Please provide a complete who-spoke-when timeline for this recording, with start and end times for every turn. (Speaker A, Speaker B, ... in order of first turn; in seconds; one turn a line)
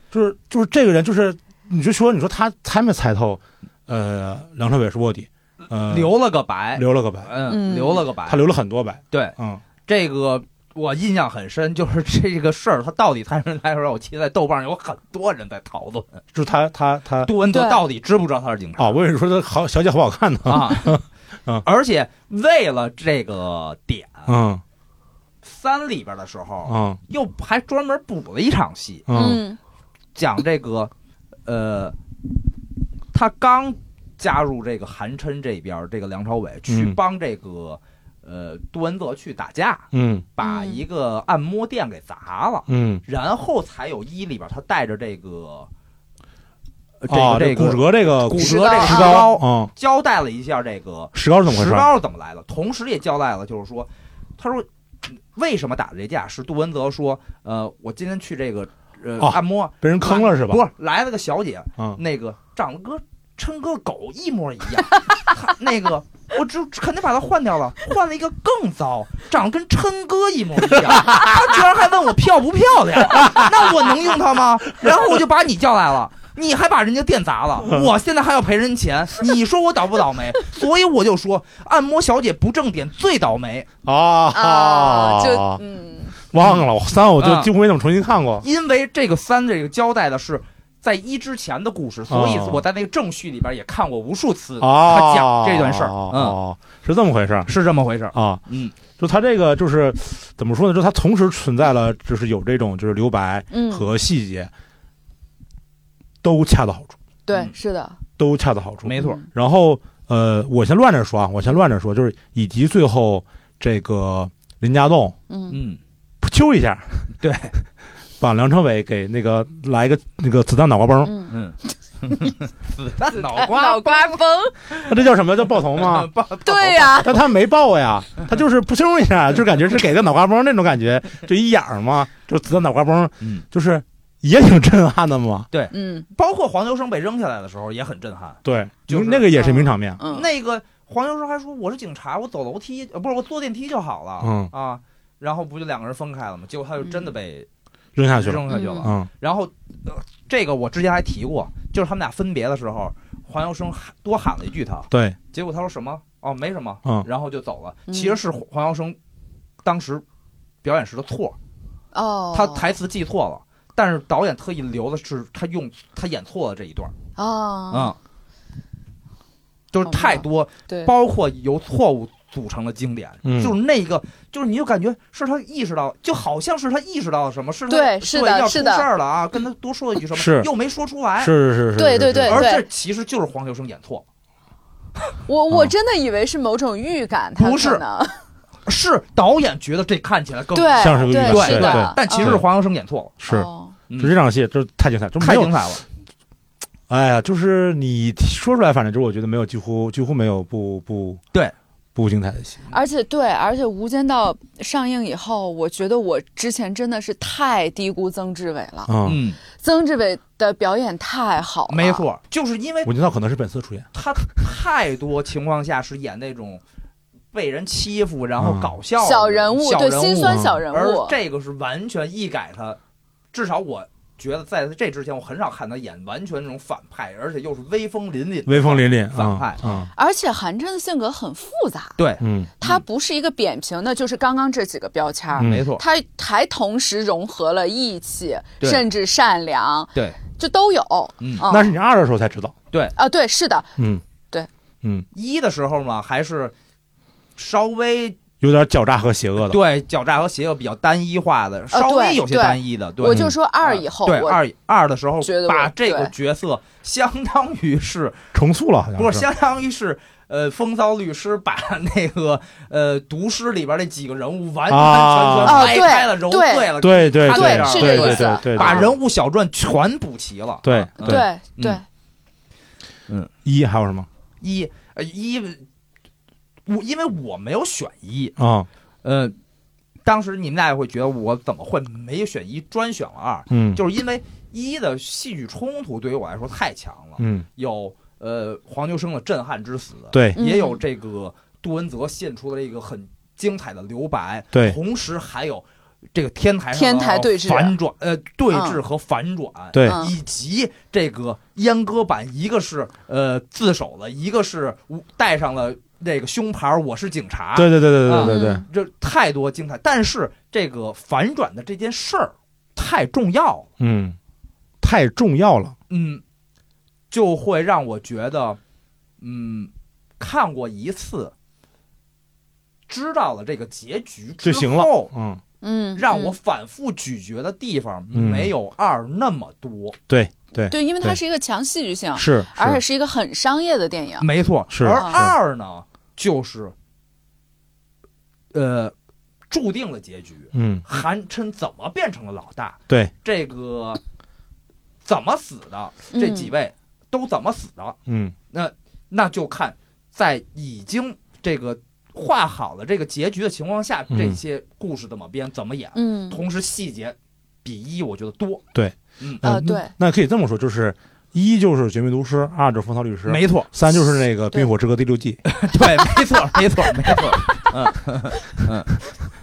Speaker A: 0.1-6.2
Speaker B: 5.7-8.4
Speaker A: 6.8-7.3
Speaker C: 7.5-8.1
Speaker A: 8.3-9.6
Speaker B: 9.9-16.2
Speaker A: 16.3-17.3
Speaker B: 17.2-19.0
Speaker C: 17.5-17.8
Speaker A: 18.8-21.6
Speaker B: 20.5-21.0
Speaker B: 21.6-24.4
Speaker A: 24.3-24.6
Speaker B: 25.4-29.1
Speaker A: 26.7-27.0
Speaker A: 29.1-29.4
Speaker C: 29.1-29.6
Speaker B: 30.1-30.9
Speaker B: 31.5-32.0
Speaker B: 33.1-45.7
Speaker A: 36.7-37.0
Speaker A: 39.9-40.2
Speaker C: 40.4-40.8
Speaker A: 42.7-43.0
Speaker B: 47.0-83.7
Speaker A: 47.1-49.7
Speaker C: 48.4-49.3
Speaker A: 51.1-51.9
Speaker A: 59.2-60.6
Speaker A: 71.1-71.4
Speaker A: 73.2-73.5
Speaker A: 77.6-77.9
Speaker A: 83.8-85.6
Speaker C: 84.3-86.2
Speaker A: 86.3-88.5
Speaker B: 86.4-86.6
Speaker B: 87.2-87.5
Speaker B: 88.4-96.4
Speaker A: 92.1-92.6
Speaker A: 94.6-97.5
Speaker B: 97.5-98.8
Speaker A: 98.1-98.4
Speaker A: 99.0-104.5
Speaker C: 103.5-103.9
Speaker A: 106.2-107.0
Speaker C: 107.3-108.0
Speaker A: 108.2-115.2
Speaker B: 108.8-109.2
Speaker C: 109.0-109.2
Speaker C: 115.3-115.6
Speaker B: 115.5-115.8
Speaker A: 116.2-117.1
Speaker B: 117.2-117.6
Speaker A: 118.2-121.2
Speaker C: 121.0-121.3
Speaker B: 121.3-124.2
Speaker C: 123.1-124.8
Speaker A: 124.8-126.1
Speaker B: 125.7-127.0
Speaker C: 126.5-127.2
Speaker A: 126.8-135.5
Speaker B: 135.5-139.4
Speaker C: 135.7-136.1
Speaker A: 138.4-140.0
Speaker C: 139.3-140.3
Speaker B: 140.1-147.5
Speaker A: 144.2-144.5
Speaker A: 148.0-149.1
Speaker B: 148.2-159.0
Speaker C: 148.5-148.9
Speaker A: 154.9-155.2
Speaker C: 157.9-158.2
Speaker B: 159.6-160.0
Speaker B: 160.6-161.4
Speaker C: 161.9-162.7
Speaker B: 162.3-166.9
Speaker C: 167.2-167.9
Speaker B: 167.7-168.0
Speaker B: 169.7-181.3
Speaker C: 169.9-170.9
Speaker A: 173.2-173.6
Speaker C: 177.7-178.9
Speaker A: 180.1-180.5
Speaker A: 181.2-182.5
Speaker C: 181.8-182.7
Speaker B: 182.3-184.1
Speaker C: 185.3-188.2
Speaker A: 185.5-185.7
Speaker B: 187.4-187.8
Speaker B: 188.7-193.2
Speaker C: 190.5-192.4
Speaker A: 190.8-192.5
Speaker A: 193.2-195.7
Speaker C: 193.3-193.8
Speaker B: 195.2-195.8
Speaker A: 196.9-201.2
Speaker A: 201.9-202.7
Speaker C: 202.7-208.9
Speaker A: 208.9-209.2
Speaker B: 209.0-209.4
Speaker C: 209.5-212.0
Speaker B: 211.7-212.9
Speaker A: 212.8-213.9
Speaker B: 213.9-216.6
Speaker B: 217.3-222.8
Speaker A: 218.4-218.7
Speaker C: 219.0-221.2
Speaker A: 220.2-220.6
Speaker B: 223.3-229.7
Speaker A: 228.5-229.9
Speaker C: 230.0-232.0
Speaker B: 232.0-232.8
Speaker A: 232.2-232.5
Speaker C: 232.6-241.7
Speaker A: 235.4-235.6
Speaker B: 235.4-235.8
Speaker B: 239.9-240.2
Speaker B: 241.2-241.4
Speaker A: 241.5-242.6
Speaker C: 243.0-243.7
Speaker B: 245.1-246.5
Speaker B: 247.4-248.2
Speaker A: 248.4-249.6
Speaker B: 249.5-258.2
Speaker C: 251.7-254.4
Speaker A: 253.1-253.3
Speaker C: 255.2-256.1
Speaker A: 258.3-259.3
Speaker B: 259.0-271.8
Speaker A: 264.7-265.8
Speaker C: 265.4-268.9
Speaker A: 266.8-268.9
Speaker A: 270.6-271.3
Speaker C: 271.0-271.8
Speaker A: 273.4-274.1
Speaker B: 274.4-275.6
Speaker B: 276.7-278.4
Speaker A: 278.4-278.7
Speaker B: 279.0-279.4
Speaker B: 280.0-313.7
Speaker A: 283.5-283.8
Speaker A: 287.2-287.5
Speaker A: 290.1-290.4
Speaker C: 290.4-290.8
Speaker C: 296.7-297.8
Speaker C: 298.5-298.8
Speaker A: 299.7-300.0
Speaker C: 299.8-300.1
Speaker A: 307.6-308.6
Speaker C: 308.2-308.6
Speaker A: 313.8-314.2
Speaker A: 314.8-315.8
Speaker B: 315.9-316.2
Speaker B: 317.1-318.6
Speaker B: 319.2-321.3
Speaker B: 322.9-325.1
Speaker A: 324.4-325.4
Speaker C: 325.6-326.4
Speaker B: 326.0-330.0
Speaker A: 328.1-328.5
Speaker A: 330.1-331.2
Speaker C: 330.7-334.3
Speaker A: 332.1-332.8
Speaker B: 334.2-336.7
Speaker A: 334.7-335.3
Speaker C: 334.9-335.3
Speaker B: 338.5-338.9
Speaker B: 339.5-344.0
Speaker A: 340.5-340.8
Speaker B: 345.0-348.0
Speaker C: 346.1-346.5
Speaker A: 348.1-348.4
Speaker B: 348.5-358.6
Speaker A: 354.1-354.4
Speaker C: 355.9-356.4
Speaker A: 358.7-365.5
Speaker B: 359.2-359.4
Speaker C: 359.4-359.9
Speaker B: 363.3-363.7
Speaker B: 365.5-368.9